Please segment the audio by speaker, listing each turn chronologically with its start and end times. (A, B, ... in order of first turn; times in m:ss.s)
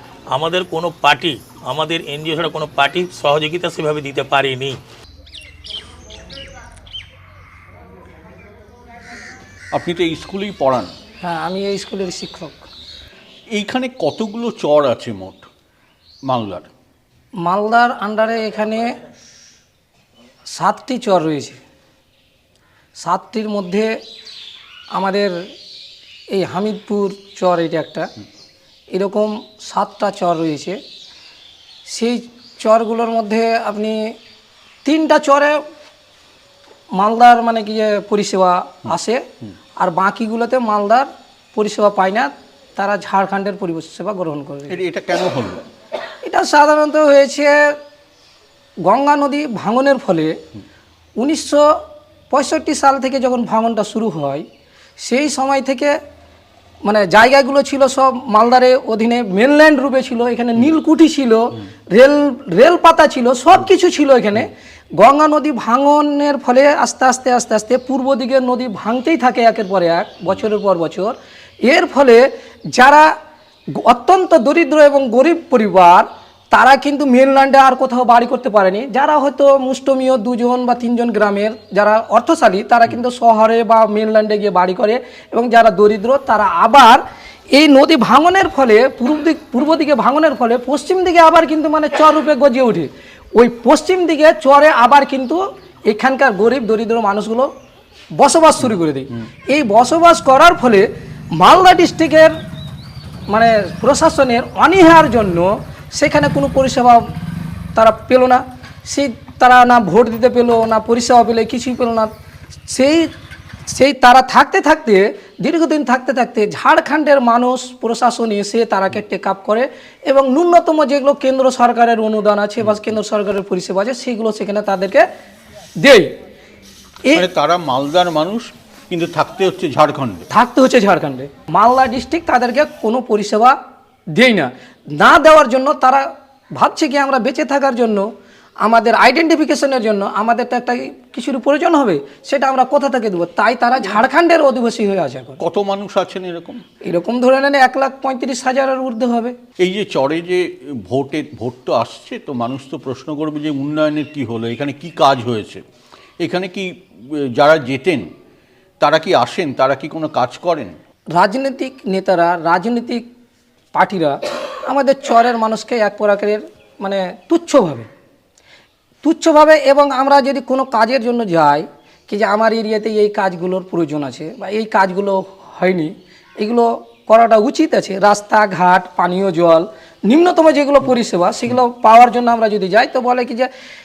0:00.3-0:04.8 A
0:09.7-0:10.9 B
0:11.2-0:12.7 C
0:13.5-0:15.5 B
0:16.2-0:16.7 B
0:17.4-0:19.0 C
0:20.5-0:21.6 C
0:23.0-0:24.0 C
0:24.9-0:25.3 C
0:26.3-0:28.0 C
0:28.9-0:30.8 C
0:31.9-0:34.2 C
0:34.8-0:35.6 C
0:36.9-0:39.2 C
0:39.8-0:44.8 C
0:44.7-0:45.6 B
0:46.2-0:47.5 C
0:48.8-0:50.3 C
0:51.2-0:51.6 C
0:52.3-0:54.4 C
0:55.0-0:56.0 C
0:56.8-1:13.1 C
1:13.7-1:37.5 C
1:38.1-1:42.3 C
1:43.3-1:47.0 C
1:47.8-1:52.1 C
1:52.7-1:53.1 C
1:53.7-2:05.0 C
2:05.8-2:06.1 C
2:07.1-2:10.2 B
2:10.3-2:13.5 C
2:14.1-2:18.1 C
2:18.6-2:25.4 C
2:25.4-2:26.6 B
2:26.8-2:29.4 C
2:29.6-2:35.6 B
2:36.2-2:38.1 B
2:38.8-2:40.8 B
2:41.1-2:43.0 C
2:43.7-2:47.9 C
2:49.0-3:03.5 C